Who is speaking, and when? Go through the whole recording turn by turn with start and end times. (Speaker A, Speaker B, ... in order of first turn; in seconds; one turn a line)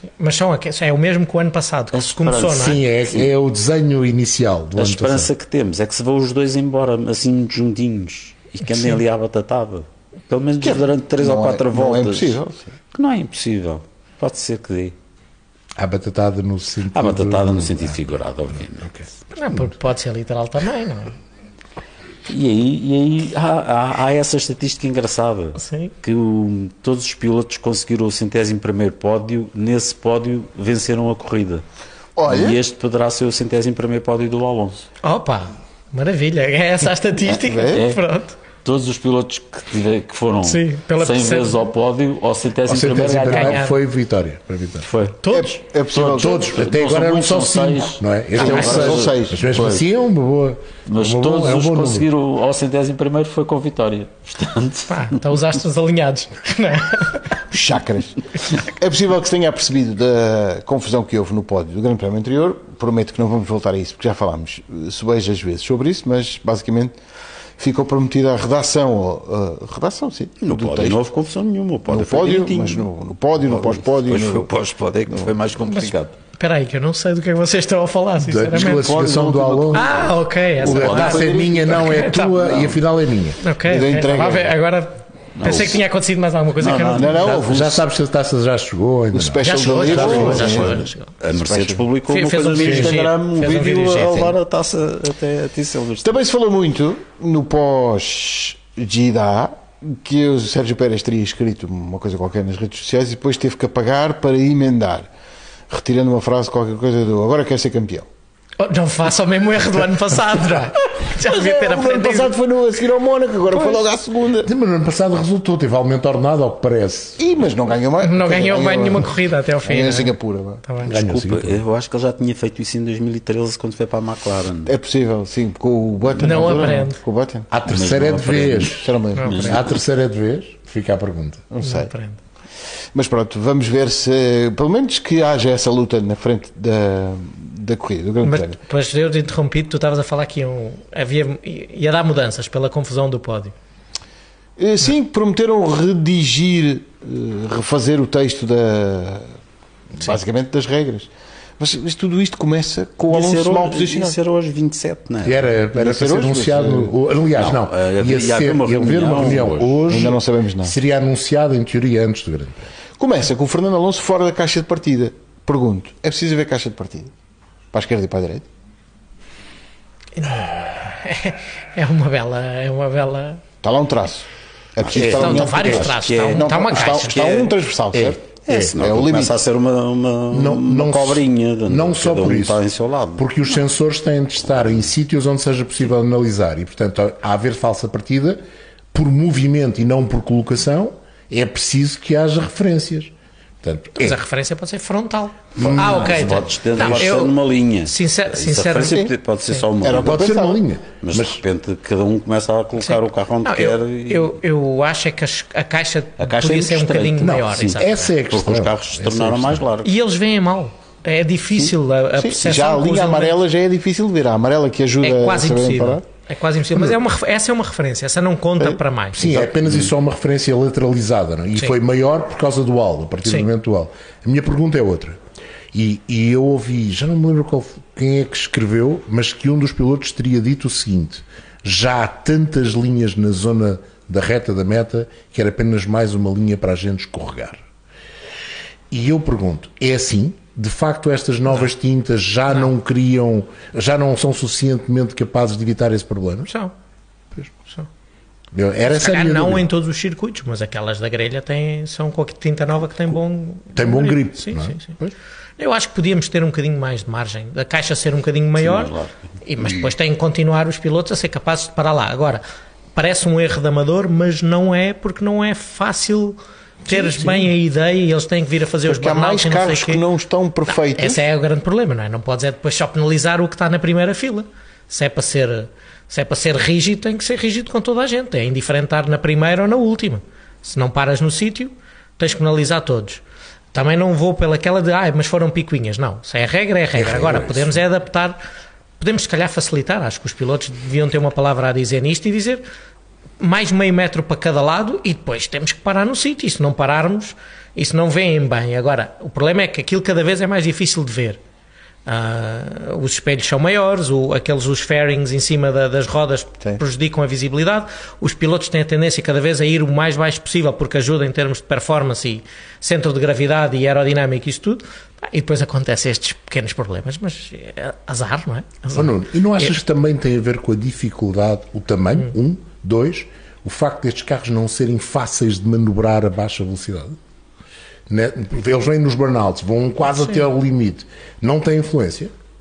Speaker A: 0.2-2.8
Speaker B: 1.9-3.3
Speaker C: 2.5-5.3
Speaker B: 4.8-12.4
Speaker D: 10.6-12.7
Speaker B: 12.9-14.9
Speaker C: 15.8-18.0
Speaker B: 16.9-18.9
Speaker C: 18.8-19.6
Speaker A: 19.3-21.1
Speaker B: 22.3-31.6
Speaker A: 25.6-25.9
Speaker D: 32.2-32.6
Speaker B: 32.3-34.9
Speaker A: 35.0-38.4
Speaker D: 37.4-37.9
Speaker B: 37.7-38.0
Speaker B: 38.6-43.7
Speaker A: 40.4-41.6
Speaker C: 42.7-44.9
Speaker A: 43.0-43.8
Speaker B: 44.8-45.2
Speaker A: 45.2-45.6
Speaker D: 45.3-46.5
Speaker B: 45.9-49.8
Speaker C: 46.1-52.1
Speaker D: 48.4-49.4
Speaker B: 50.9-55.2
Speaker A: 54.9-57.3
Speaker D: 57.5-67.0
Speaker D: 67.6-71.0
Speaker B: 70.4-72.9
Speaker D: 71.9-74.5
Speaker B: 73.4-76.2
Speaker D: 75.1-75.3
Speaker A: 75.7-78.9
Speaker C: 78.2-80.1
Speaker D: 78.5-80.0
Speaker A: 79.7-82.5
Speaker C: 80.6-83.4
Speaker B: 80.6-81.4
Speaker D: 80.6-82.8
Speaker A: 83.4-87.2
Speaker D: 83.6-84.5
Speaker B: 85.4-85.8
Speaker B: 86.6-87.3
Speaker D: 86.9-87.8
Speaker C: 87.2-90.7
Speaker D: 89.1-91.9
Speaker A: 89.4-91.1
Speaker B: 90.0-96.2
Speaker A: 92.1-94.3
Speaker C: 92.6-93.0
Speaker D: 92.8-93.1
Speaker D: 96.0-105.1
Speaker D: 105.7-108.1
Speaker A: 108.6-112.3
Speaker D: 111.0-114.5
Speaker A: 113.5-113.8
Speaker C: 114.4-117.2
Speaker D: 117.2-121.3
Speaker A: 118.0-120.1
Speaker A: 120.7-120.9
Speaker C: 120.8-121.6
Speaker B: 121.3-124.7
Speaker D: 124.7-127.5
Speaker A: 126.2-127.0
Speaker C: 127.5-131.5
Speaker B: 127.7-129.7
Speaker D: 128.7-129.6
Speaker D: 131.5-131.9
Speaker A: 131.6-132.2
Speaker D: 132.9-138.6
Speaker A: 138.2-143.5
Speaker D: 144.6-149.3
Speaker D: 150.0-154.2
Speaker B: 153.1-155.5
Speaker C: 155.2-162.7
Speaker D: 155.7-156.9
Speaker B: 157.4-160.1
Speaker D: 159.2-160.8
Speaker D: 163.0-167.1
Speaker D: 167.7-168.5
Speaker A: 170.2-173.4
Speaker D: 173.6-178.2
Speaker B: 174.9-183.3
Speaker A: 175.0-177.2
Speaker C: 178.5-178.8
Speaker D: 178.8-179.4
Speaker C: 180.3-182.7
Speaker C: 183.2-188.4
Speaker C: 188.9-194.2
Speaker A: 194.0-199.6
Speaker C: 195.6-197.0
Speaker B: 195.6-200.3
Speaker D: 198.8-199.1
Speaker D: 199.8-200.6
Speaker C: 200.0-201.4
Speaker B: 201.0-204.3
Speaker A: 202.8-208.1
Speaker B: 206.2-209.9
Speaker C: 207.2-209.6
Speaker A: 209.8-213.4
Speaker D: 211.5-216.0
Speaker A: 215.0-219.4
Speaker D: 218.6-219.8
Speaker C: 219.1-225.2
Speaker C: 225.7-237.6
Speaker C: 238.9-246.5
Speaker A: 246.5-246.7
Speaker C: 248.5-249.7
Speaker A: 248.9-254.9
Speaker C: 253.7-255.1
Speaker A: 255.6-258.9
Speaker B: 258.6-259.9
Speaker A: 259.4-262.4
Speaker A: 263.0-270.0
Speaker C: 266.9-267.5
Speaker D: 268.8-271.2
Speaker A: 270.7-283.2
Speaker A: 283.7-288.4
Speaker C: 286.9-287.8
Speaker A: 289.0-292.6
Speaker A: 293.4-301.4
Speaker A: 302.1-319.8
Speaker C: 318.9-327.2
Speaker C: 328.1-332.3